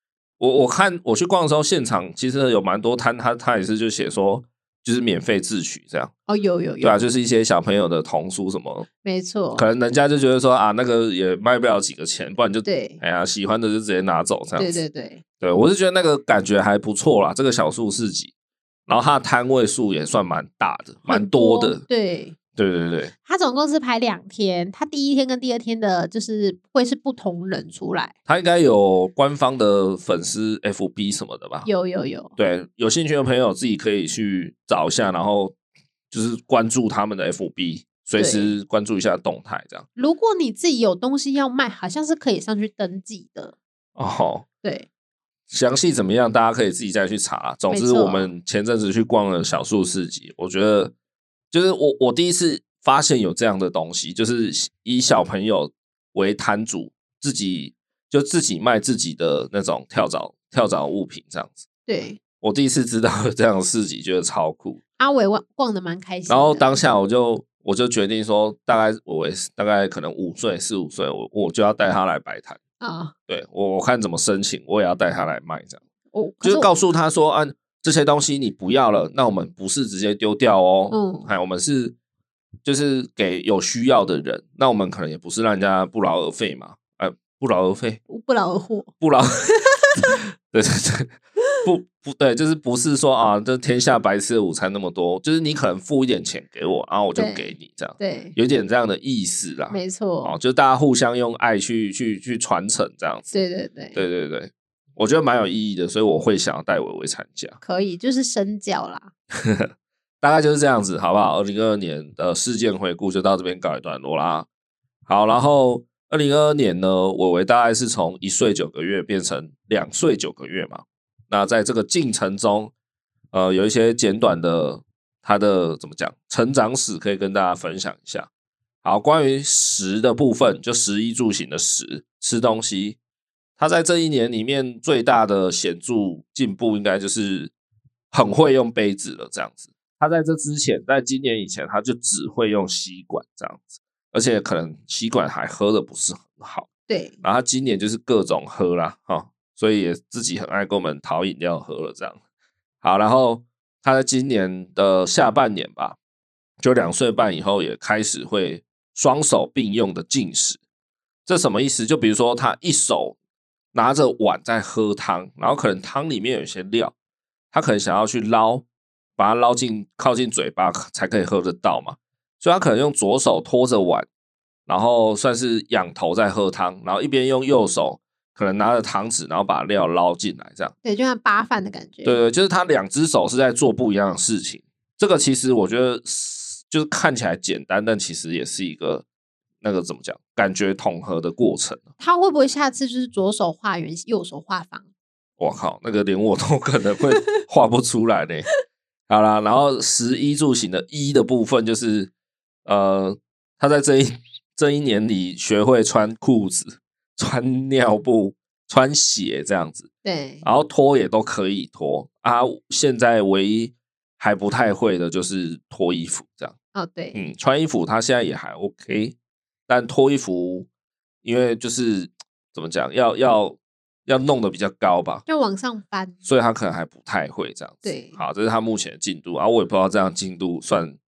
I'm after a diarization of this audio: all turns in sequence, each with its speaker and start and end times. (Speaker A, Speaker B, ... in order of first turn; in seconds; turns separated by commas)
Speaker A: 0.4-6.1, Speaker B: 6.3-7.0, Speaker A: 6.8-8.9, Speaker B: 9.0-9.7, Speaker A: 9.5-14.8, Speaker B: 12.6-13.0, Speaker B: 14.6-15.2, Speaker A: 15.4-18.3, Speaker A: 18.9-21.8, Speaker B: 21.1-22.4, Speaker A: 22.6-23.1, Speaker B: 23.2-28.1, Speaker A: 28.3-31.7, Speaker B: 31.6-32.3, Speaker A: 32.4-35.5, Speaker A: 36.1-39.9, Speaker B: 38.2-38.6, Speaker B: 40.0-43.5, Speaker A: 44.0-44.4, Speaker A: 45.5-50.9, Speaker B: 47.7-48.3, Speaker A: 51.5-61.6, Speaker B: 61.9-62.2, Speaker A: 62.4-64.8, Speaker B: 65.0-66.9, Speaker A: 66.3-72.6, Speaker B: 72.8-73.1, Speaker A: 73.3-75.8, Speaker B: 76.1-76.7, Speaker A: 76.4-81.9, Speaker B: 80.9-81.3, Speaker A: 82.6-88.0, Speaker B: 88.1-88.9, Speaker A: 89.0-89.3, Speaker B: 89.8-90.1, Speaker A: 90.5-91.1, Speaker A: 91.6-103.3, Speaker B: 97.1-98.3, Speaker B: 99.7-100.3, Speaker B: 103.3-104.0, Speaker A: 103.9-107.6, Speaker B: 107.6-109.1, Speaker A: 109.4-109.7, Speaker A: 110.2-114.5, Speaker A: 115.0-122.7, Speaker A: 123.3-128.3, Speaker A: 128.8-133.0, Speaker A: 133.6-137.5, Speaker A: 138.1-146.7, Speaker B: 146.9-147.2, Speaker A: 147.2-152.2, Speaker A: 152.8-156.0, Speaker A: 156.6-160.6, Speaker A: 161.2-163.2, Speaker A: 163.7-166.9, Speaker A: 167.5-168.6, Speaker A: 169.2-174.1, Speaker A: 174.7-180.7, Speaker B: 180.8-182.2, Speaker A: 182.0-189.0, Speaker A: 189.6-191.8, Speaker B: 192.0-194.8, Speaker A: 195.4-198.5, Speaker A: 199.1-202.1, Speaker A: 202.6-209.9, Speaker B: 210.0-210.4, Speaker A: 210.4-216.5, Speaker B: 216.7-217.2, Speaker A: 217.1-219.2, Speaker A: 219.7-220.7, Speaker A: 221.2-225.2, Speaker B: 225.2-226.2, Speaker A: 226.2-230.9, Speaker B: 227.8-228.2